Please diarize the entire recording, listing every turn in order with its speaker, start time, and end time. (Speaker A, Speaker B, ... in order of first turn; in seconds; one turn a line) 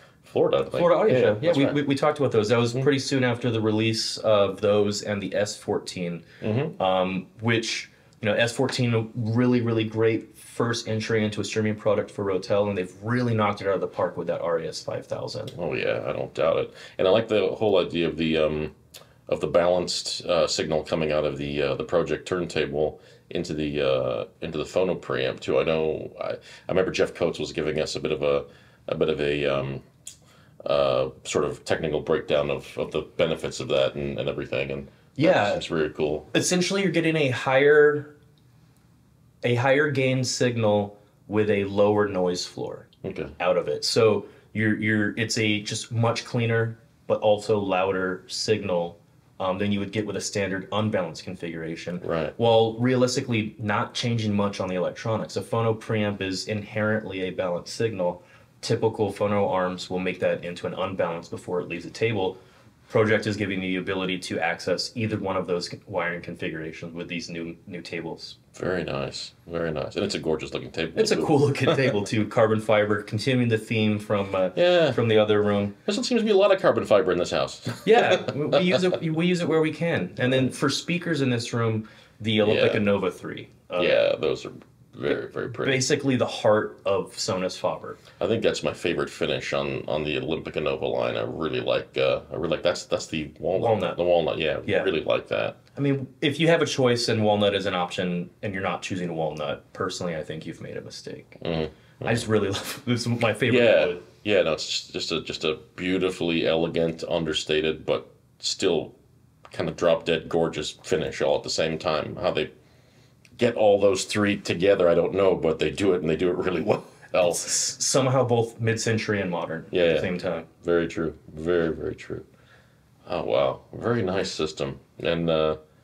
Speaker A: 0.2-1.8
Speaker B: 0.7-6.3
Speaker A: 6.4-6.8
Speaker B: 6.8-15.6
Speaker A: 15.5-18.8
Speaker A: 19.3-29.9
Speaker A: 30.6-36.3
Speaker B: 35.2-35.6
Speaker B: 36.3-38.1
Speaker B: 39.4-68.4
Speaker A: 43.0-43.4
Speaker A: 52.0-52.4
Speaker A: 68.5-72.0
Speaker B: 71.0-75.8
Speaker A: 74.5-75.0
Speaker A: 75.8-78.9
Speaker B: 77.8-84.0
Speaker A: 80.2-80.5
Speaker A: 82.4-82.8
Speaker A: 83.8-85.8
Speaker B: 85.6-88.0
Speaker A: 88.2-95.6
Speaker B: 93.6-94.0
Speaker B: 94.7-94.9
Speaker B: 95.8-101.4
Speaker A: 101.4-102.3
Speaker B: 102.0-104.1
Speaker A: 103.5-109.0
Speaker A: 109.5-112.5
Speaker A: 113.4-117.5
Speaker B: 117.2-120.5
Speaker A: 119.7-122.3
Speaker A: 123.0-125.6